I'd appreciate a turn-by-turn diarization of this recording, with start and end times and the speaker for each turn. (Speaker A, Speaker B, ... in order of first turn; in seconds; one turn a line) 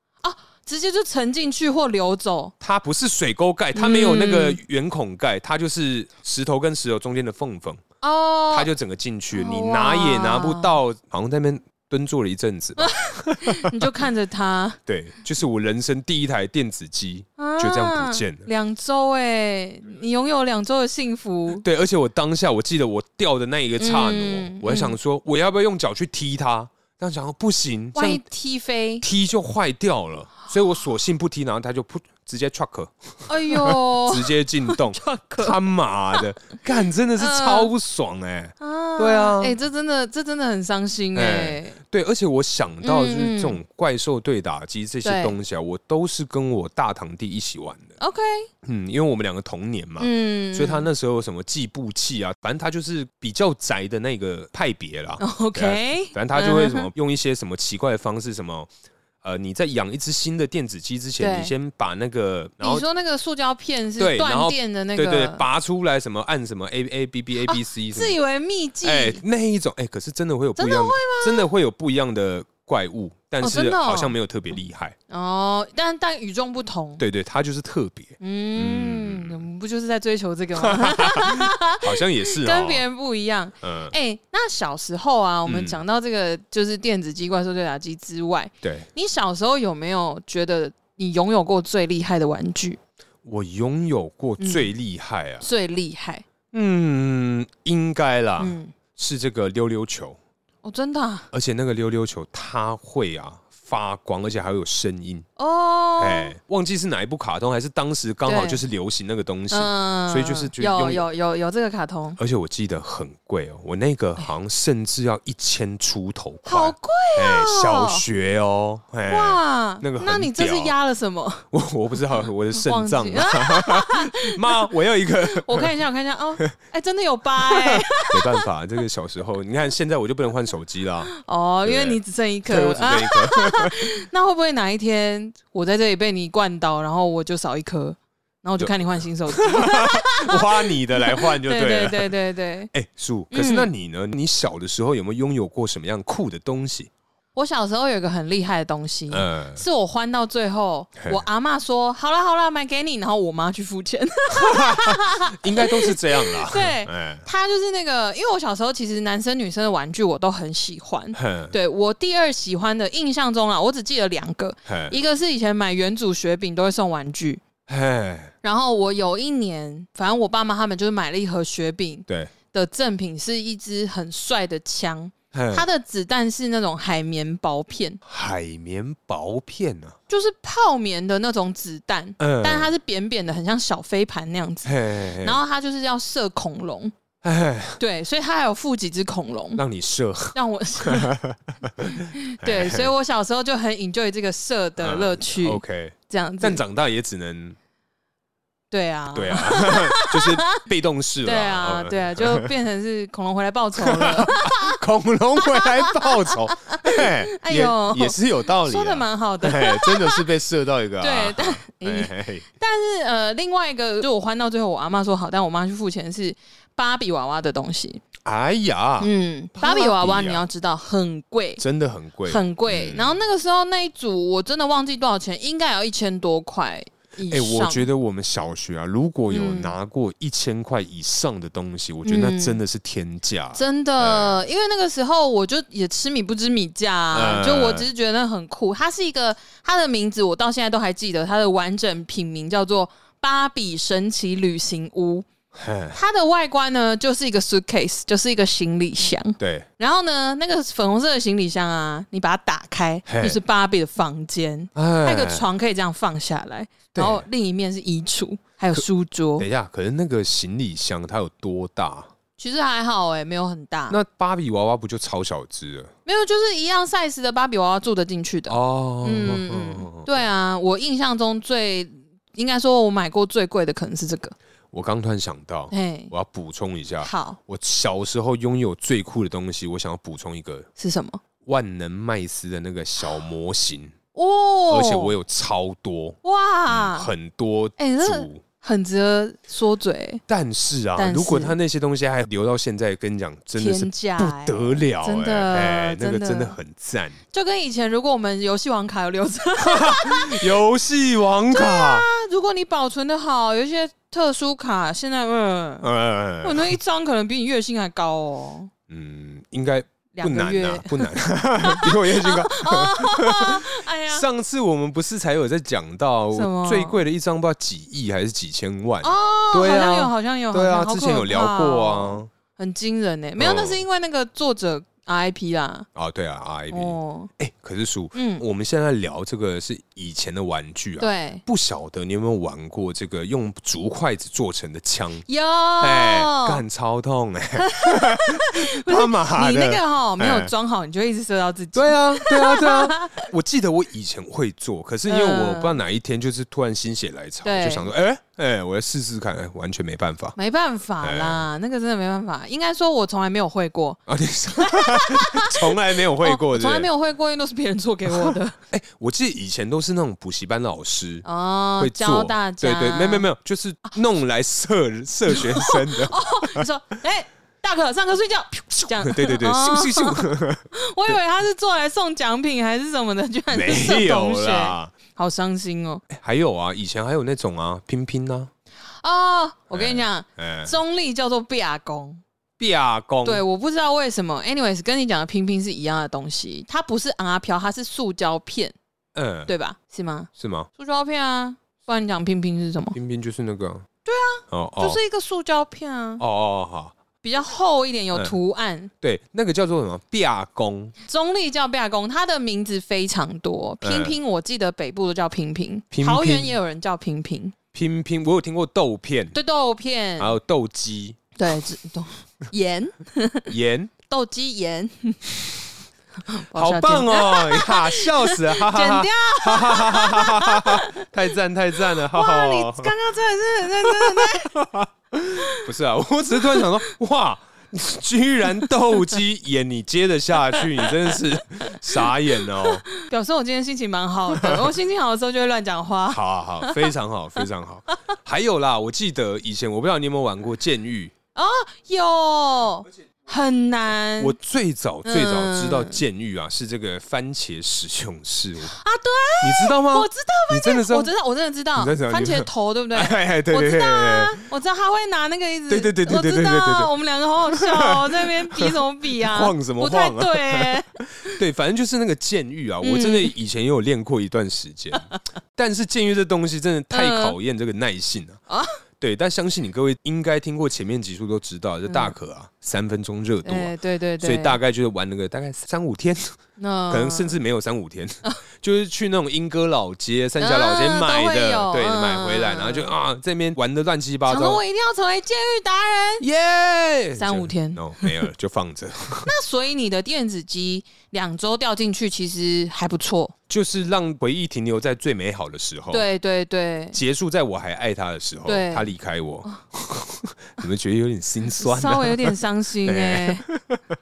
Speaker A: 0.2-2.5
Speaker B: 2.6-7.8
Speaker A: 3.8-4.6
Speaker A: 8.0-8.7
Speaker B: 8.5-13.8
Speaker A: 9.3-10.7
Speaker A: 12.8-14.8
Speaker B: 14.9-18.5
Speaker A: 17.4-21.6
Speaker B: 21.6-28.2
Speaker A: 23.8-25.0
Speaker A: 27.9-29.1
Speaker B: 29.0-39.6
Speaker A: 33.3-35.6
Speaker A: 36.1-36.5
Speaker A: 37.2-37.7
Speaker A: 38.6-41.8
Speaker B: 41.1-47.9
Speaker A: 42.8-43.6
Speaker A: 45.0-45.4
Speaker A: 48.0-48.5
Speaker B: 48.6-58.7
Speaker A: 50.0-50.9
Speaker A: 55.2-56.9
Speaker B: 59.2-62.9
Speaker A: 61.2-61.5
Speaker A: 62.6-65.5
Speaker B: 64.0-68.2
Speaker A: 67.4-69.2
Speaker B: 68.8-75.0
Speaker A: 70.6-71.5
Speaker A: 73.4-74.2
Speaker A: 75.1-77.0
Speaker B: 77.0-79.4
Speaker A: 78.2-92.8
Speaker B: 80.6-82.8
Speaker B: 83.6-83.9
Speaker B: 85.5-85.8
Speaker B: 88.6-88.9
Speaker B: 93.2-95.5
Speaker A: 94.4-94.7
Speaker A: 95.4-96.2
Speaker B: 96.5-100.2
Speaker A: 98.4-98.7
Speaker A: 100.6-101.3
Speaker B: 101.3-105.3
Speaker A: 105.4-106.3
Speaker B: 106.0-111.1
Speaker A: 108.3-108.6
Speaker A: 109.5-112.2
Speaker B: 112.2-120.7
Speaker A: 116.4-118.0
Speaker A: 119.0-121.5
Speaker B: 121.5-125.8
Speaker A: 122.6-124.7
Speaker A: 125.2-128.4
Speaker B: 127.4-131.1
Speaker A: 131.2-142.7
Speaker B: 131.7-133.8
Speaker B: 138.6-142.1
Speaker B: 142.7-146.9
Speaker A: 143.3-143.7
Speaker A: 147.3-167.4
Speaker B: 149.1-149.6
Speaker B: 154.3-157.3
Speaker B: 161.2-161.5
Speaker B: 164.7-164.9
Speaker B: 167.7-168.3
Speaker A: 168.4-178.0
Speaker B: 175.3-175.7
Speaker B: 178.1-180.0
Speaker A: 180.1-186.9
Speaker B: 182.2-182.7
Speaker B: 184.7-185.4
Speaker B: 187.2-187.8
Speaker A: 187.8-189.6
Speaker B: 189.6-192.9
Speaker A: 190.3-191.2
Speaker A: 191.9-196.6
Speaker B: 194.8-197.6
Speaker A: 198.7-200.6
Speaker B: 199.1-202.5
Speaker A: 201.2-204.8
Speaker B: 203.8-212.4
Speaker A: 205.4-210.3
Speaker A: 211.0-218.0
Speaker B: 218.2-220.5
Speaker A: 219.0-221.6
Speaker B: 221.6-223.2
Speaker A: 222.3-227.9
Speaker B: 227.3-234.4
Speaker A: 229.3-229.8
Speaker A: 232.0-232.6
Speaker A: 233.5-245.3
Speaker B: 237.1-237.9
Speaker B: 245.5-246.0
Speaker A: 245.9-259.5
Speaker B: 249.4-249.7
Speaker B: 253.1-253.4
Speaker B: 254.8-255.4
Speaker B: 256.9-257.3
Speaker B: 259.4-262.1
Speaker A: 262.4-264.0
Speaker B: 263.9-265.9
Speaker A: 266.1-274.4
Speaker B: 268.5-270.1
Speaker B: 274.7-280.7
Speaker A: 275.7-276.1
Speaker A: 277.0-277.4
Speaker A: 280.8-281.2
Speaker B: 281.4-283.9
Speaker A: 284.1-285.1
Speaker B: 284.7-288.4
Speaker A: 286.2-287.1
Speaker A: 287.8-290.2
Speaker B: 290.3-297.2
Speaker A: 291.0-291.6
Speaker A: 293.6-296.6
Speaker A: 297.3-300.5
Speaker B: 299.6-302.1
Speaker A: 301.5-305.9
Speaker B: 305.8-306.8
Speaker A: 306.4-308.7
Speaker B: 308.9-322.3
Speaker A: 310.1-314.3
Speaker A: 316.3-317.0
Speaker A: 319.0-325.9
Speaker B: 323.4-323.8
Speaker B: 325.9-335.3
Speaker A: 326.7-327.3
Speaker A: 328.1-328.4
Speaker A: 331.0-331.4
Speaker A: 335.3-336.6
Speaker B: 335.8-340.5
Speaker A: 337.6-343.3
Speaker B: 341.7-350.4
Speaker A: 345.1-345.8
Speaker A: 347.4-347.9
Speaker A: 350.4-354.0
Speaker B: 351.0-351.5
Speaker B: 354.1-356.9
Speaker A: 354.6-358.6
Speaker B: 358.1-361.3
Speaker A: 361.2-363.3
Speaker B: 361.8-366.6
Speaker A: 365.3-376.1
Speaker B: 369.0-371.2
Speaker B: 373.5-374.9
Speaker B: 376.1-378.5
Speaker A: 379.0-382.2
Speaker B: 379.7-380.8
Speaker B: 382.6-383.4
Speaker A: 383.2-388.8
Speaker B: 389.1-389.5
Speaker A: 389.5-392.9
Speaker B: 390.4-390.7
Speaker B: 392.9-393.9
Speaker A: 394.1-396.2
Speaker B: 394.5-395.0
Speaker B: 396.2-396.9
Speaker A: 397.2-398.9
Speaker B: 399.0-400.9
Speaker A: 401.1-407.6
Speaker B: 403.8-404.2
Speaker B: 405.9-406.6
Speaker B: 407.7-409.4
Speaker A: 409.3-410.4
Speaker B: 410.2-411.2
Speaker A: 411.4-413.5
Speaker B: 413.5-413.9
Speaker A: 414.1-415.2
Speaker A: 416.3-421.0
Speaker B: 416.5-422.9
Speaker A: 422.0-424.5
Speaker B: 423.8-432.9
Speaker A: 425.4-425.7
Speaker A: 426.4-426.7
Speaker A: 432.0-436.9
Speaker B: 434.3-434.7
Speaker B: 436.1-441.1
Speaker A: 441.4-444.4
Speaker B: 444.2-448.7
Speaker A: 445.1-446.0
Speaker A: 448.6-461.4
Speaker B: 449.4-451.1
Speaker B: 451.8-454.4
Speaker B: 455.7-456.9
Speaker B: 457.5-468.4
Speaker A: 462.8-463.3
Speaker A: 466.9-467.4
Speaker A: 468.5-468.8
Speaker B: 469.0-476.4
Speaker A: 471.9-472.1
Speaker A: 473.4-474.6
Speaker A: 476.6-477.4
Speaker B: 476.9-484.6
Speaker A: 480.4-482.9
Speaker A: 484.3-486.3
Speaker B: 486.2-489.3
Speaker A: 487.2-488.2
Speaker A: 489.2-493.3
Speaker B: 493.5-496.1
Speaker A: 495.9-497.0
Speaker B: 496.9-503.8
Speaker A: 498.5-498.9
Speaker A: 501.6-503.4